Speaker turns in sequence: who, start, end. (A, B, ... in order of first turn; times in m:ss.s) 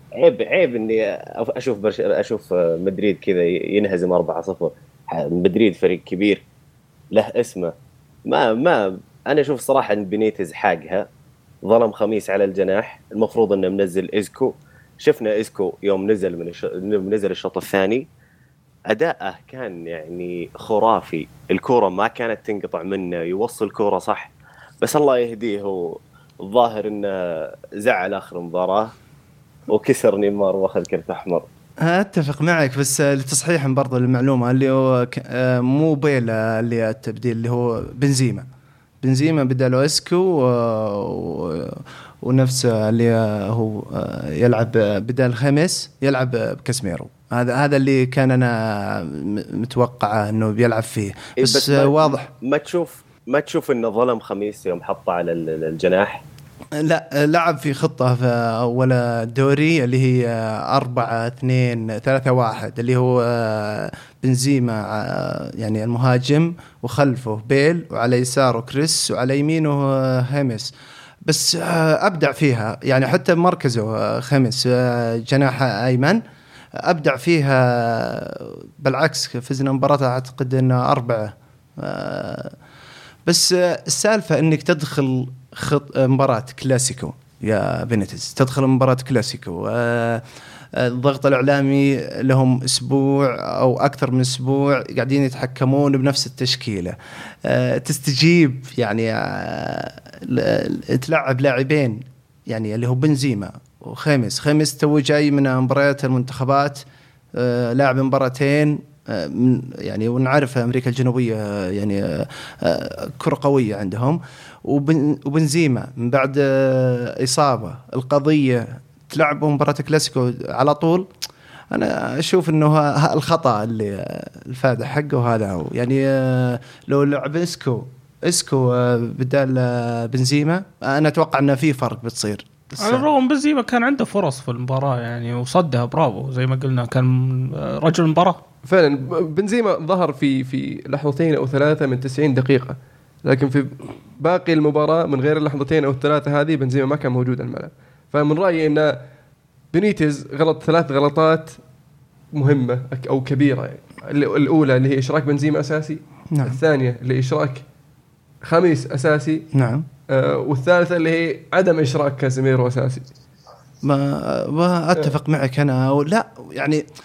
0:00.2-0:06.4 A
0:07.1-0:07.7 A
0:08.3-0:11.1 A
0:11.6-0:18.0 A
0:18.9-0:29.0 A
0:29.7-0:31.5 A
0:31.8-0:38.4 B
0:39.0-0:52.3 B
0:51.4-0:56.2 A
0:56.8-1:10.7 B
1:11.3-1:16.2 B
1:16.8-1:22.6 B
1:23.3-1:46.8 B
1:47.4-2:01.1 B
2:01.7-2:13.0 B
2:12.8-2:18.4 C
2:18.6-2:29.0 D
2:29.7-2:31.6 D
2:32.3-2:37.6 D
2:36.3-2:36.6 B
2:38.4-2:39.4 D
2:39.5-2:39.9 B
2:40.1-2:43.1 D
2:43.8-2:46.8 B